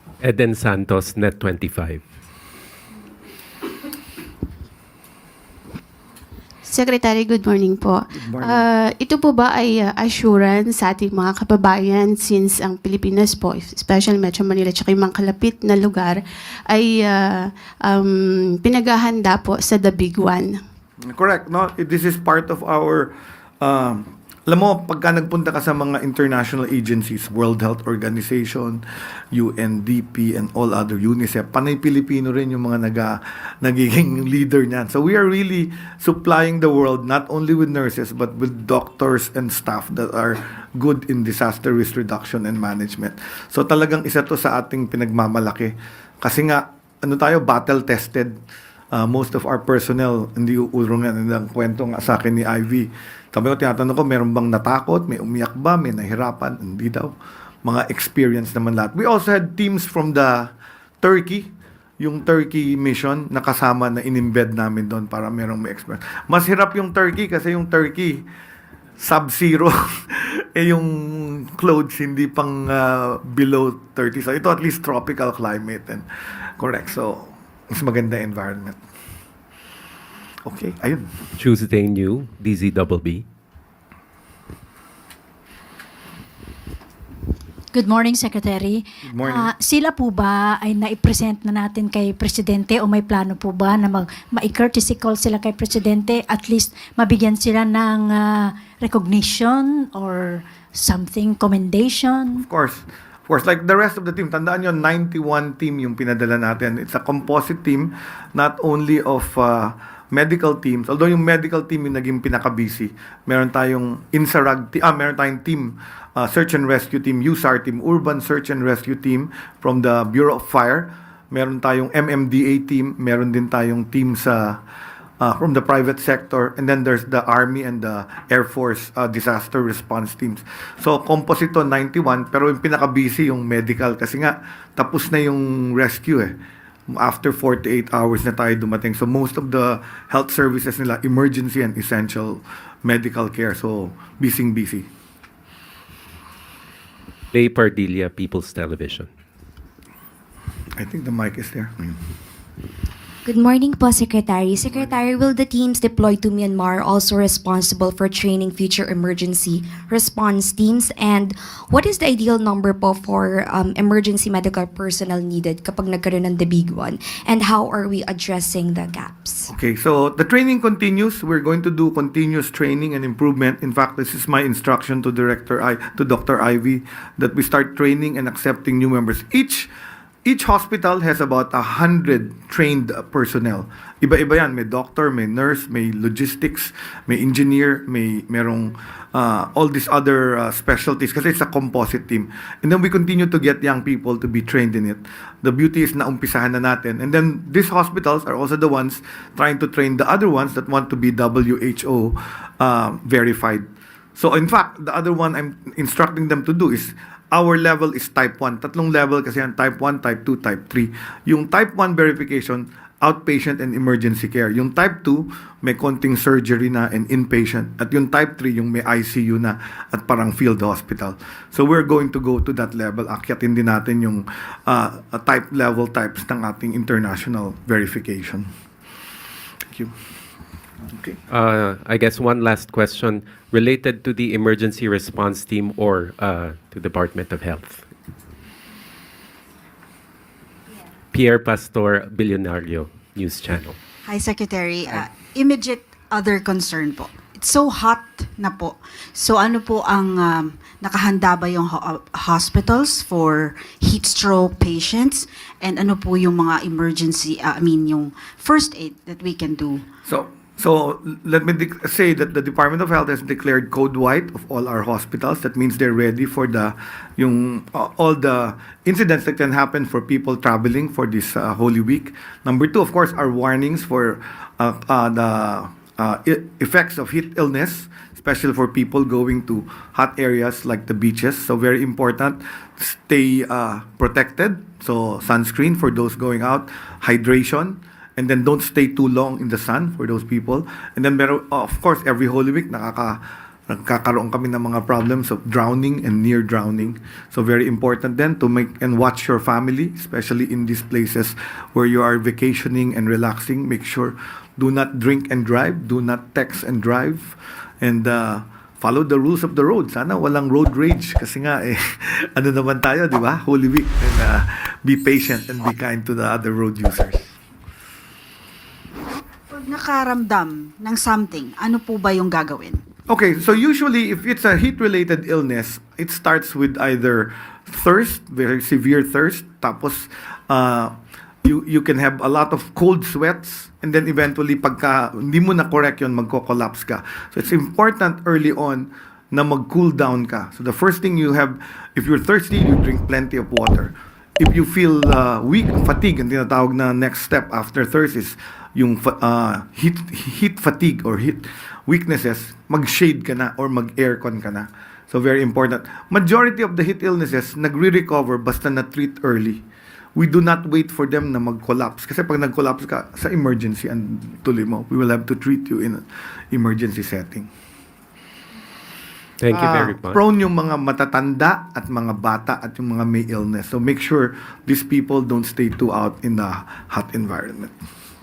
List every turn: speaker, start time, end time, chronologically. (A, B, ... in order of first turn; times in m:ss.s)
0:00.2-0:02.0 A
0:06.7-0:16.2 B
0:08.1-0:08.6 C
0:16.7-0:17.3 B
0:17.9-0:20.6 B
0:21.0-0:28.8 C
0:29.3-0:48.4 C
0:48.9-0:57.1 C
0:57.6-1:00.5 C
1:01.0-1:08.2 C
1:09.0-1:16.1 C
1:16.6-1:18.8 C
1:20.4-1:21.3 C
1:21.4-1:23.2 A
1:27.7-1:42.4 D
1:29.0-1:29.5 C
1:42.4-2:04.6 C
2:05.2-2:16.4 C
2:16.9-2:24.9 C
2:27.3-2:29.1 A
2:30.8-2:32.0 C
2:33.2-2:49.5 E
2:49.5-2:59.7 C
3:00.2-3:48.5 C
3:50.9-3:51.2 C
3:51.3-3:57.8 A
4:01.1-4:03.8 A
4:04.0-4:19.8 F
4:20.0-5:17.4 C
5:19.5-5:22.8 F
5:23.1-5:30.9 C
5:31.4-5:59.6 C
6:00.2-6:07.5 C
6:09.4-6:10.2 A
6:09.5-6:17.7 C